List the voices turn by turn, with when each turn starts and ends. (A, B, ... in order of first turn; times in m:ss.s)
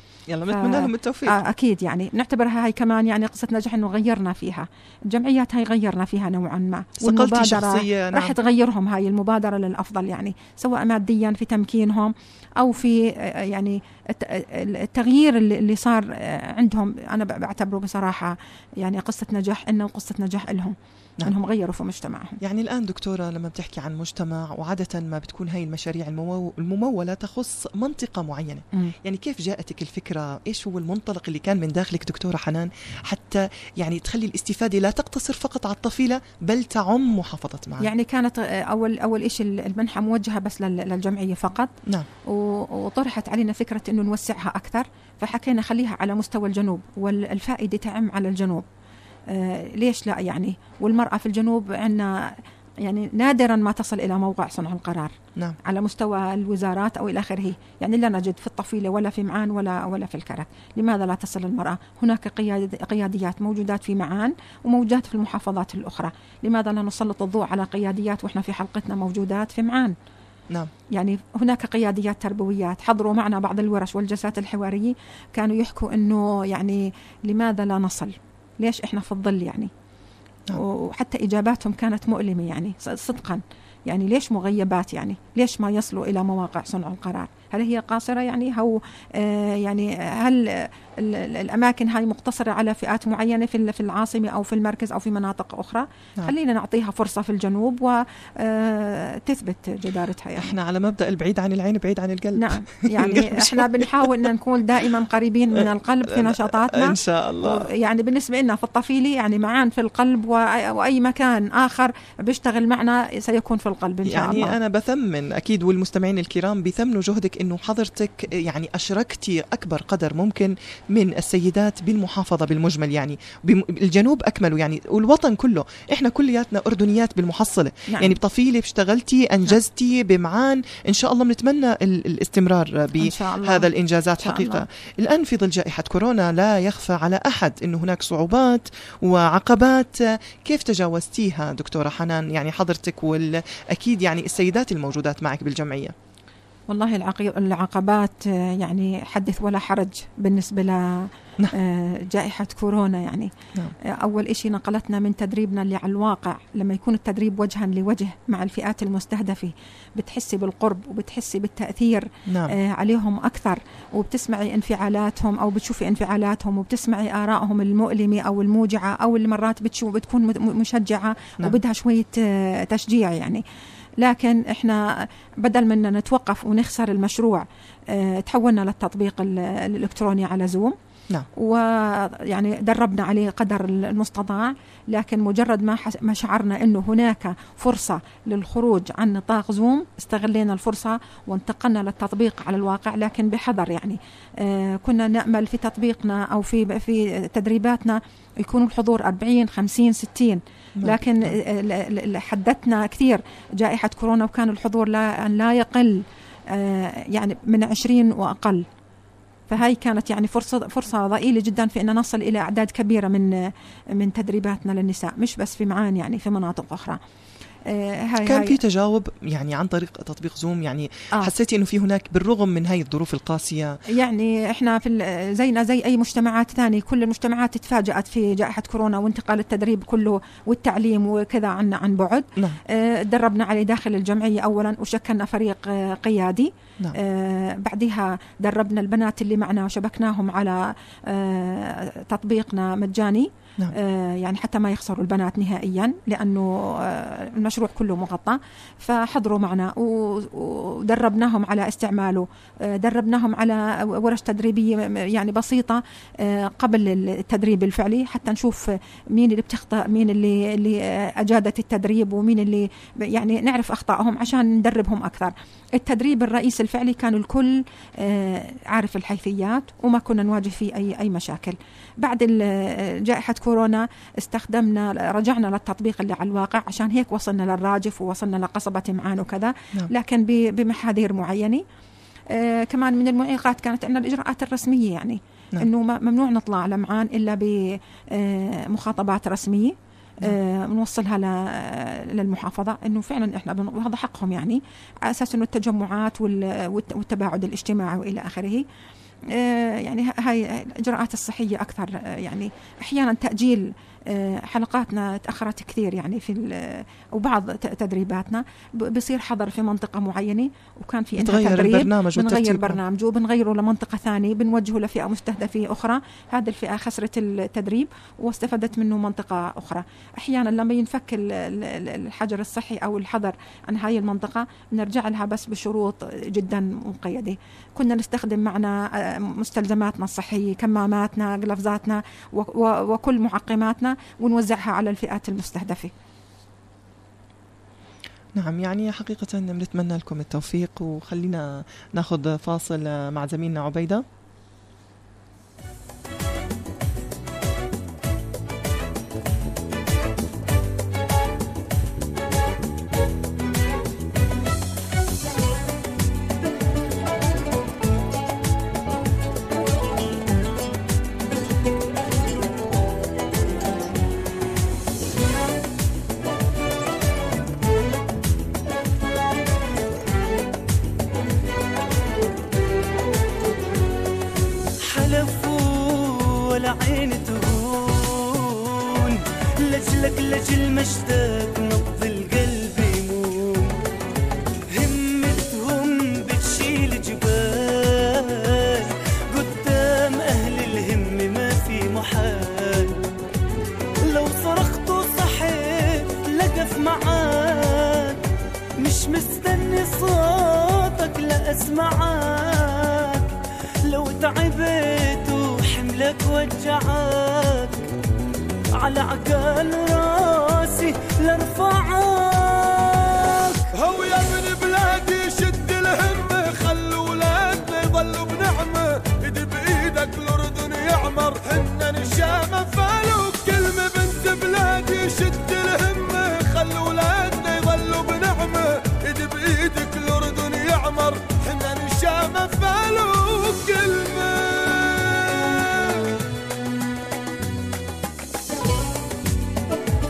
0:00.3-0:01.4 A
0:00.5-0:22.4 B
0:07.0-0:08.4 A
0:22.4-0:37.9 A
0:37.8-0:41.7 B
0:42.3-0:48.6 B
0:49.3-0:55.1 B
0:55.6-1:10.0 B
1:10.9-1:19.7 B
1:20.5-1:40.5 B
1:40.4-1:44.3 A
1:42.4-1:54.6 B
1:46.1-1:47.7 A
1:54.1-2:26.0 A
2:07.9-2:08.2 B
2:13.0-2:14.6 B
2:26.7-2:33.3 B
2:33.8-2:53.4 B
2:42.3-2:42.6 A
2:54.0-3:00.8 B
3:01.4-3:28.7 B
3:20.8-3:21.4 A
3:29.5-3:37.0 B
3:37.7-3:38.6 B
3:38.2-3:43.8 A
3:43.9-4:41.6 B
4:42.3-4:58.6 B
4:59.3-5:35.9 B
5:11.2-5:12.8 A
5:38.4-5:44.0 A
6:14.8-6:23.8 C
6:24.7-6:33.0 C
6:34.0-6:38.2 C
6:38.8-6:43.3 C
6:43.9-6:47.9 C
6:48.8-6:53.6 C
6:53.7-7:16.1 D